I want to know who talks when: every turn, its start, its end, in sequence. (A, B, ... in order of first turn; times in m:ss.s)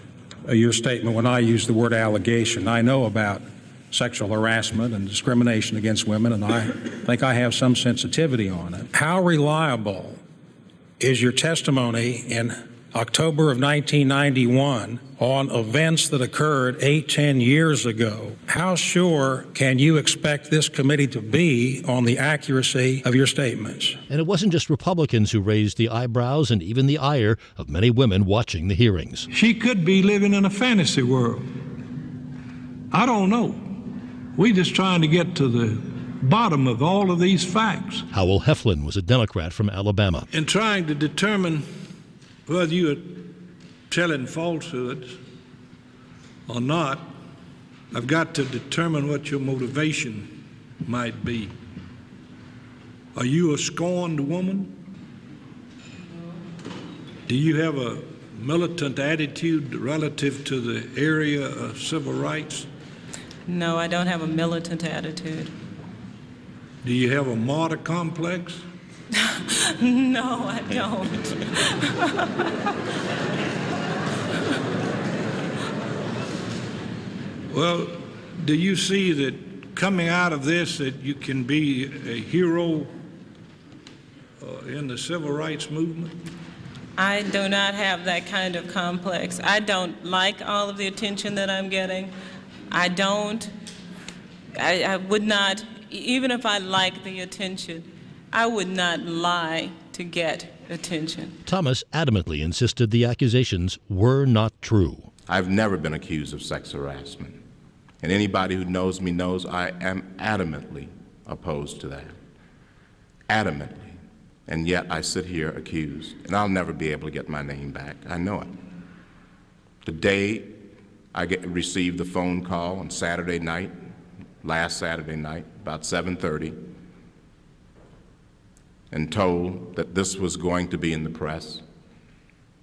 0:00.5-0:10.2 A
0:11.0-0:24.0 A
0:24.1-0:29.3 B
0:29.3-0:31.5 C
0:32.9-0:33.8 C
0:34.4-0:38.1 C
0:38.1-0:40.3 B
0:40.3-0:41.7 C
0:42.5-0:43.4 C
0:43.9-0:45.2 C
0:46.5-0:47.1 C
0:47.9-0:51.5 C
0:53.1-0:54.8 C
0:57.3-1:02.7 C
1:03.5-1:05.5 D
1:06.8-1:08.6 C
1:09.1-1:12.5 D
1:17.5-1:22.9 C
1:24.4-1:26.2 C
1:27.0-1:32.1 D
1:32.7-1:33.5 D
1:34.6-1:41.4 D
1:41.4-1:45.1 B
1:45.3-1:47.4 E
1:48.0-1:52.2 E
1:53.3-1:58.5 E
1:59.8-2:00.6 E
2:01.1-2:03.8 E
2:04.4-2:06.6 E
2:08.9-2:11.6 E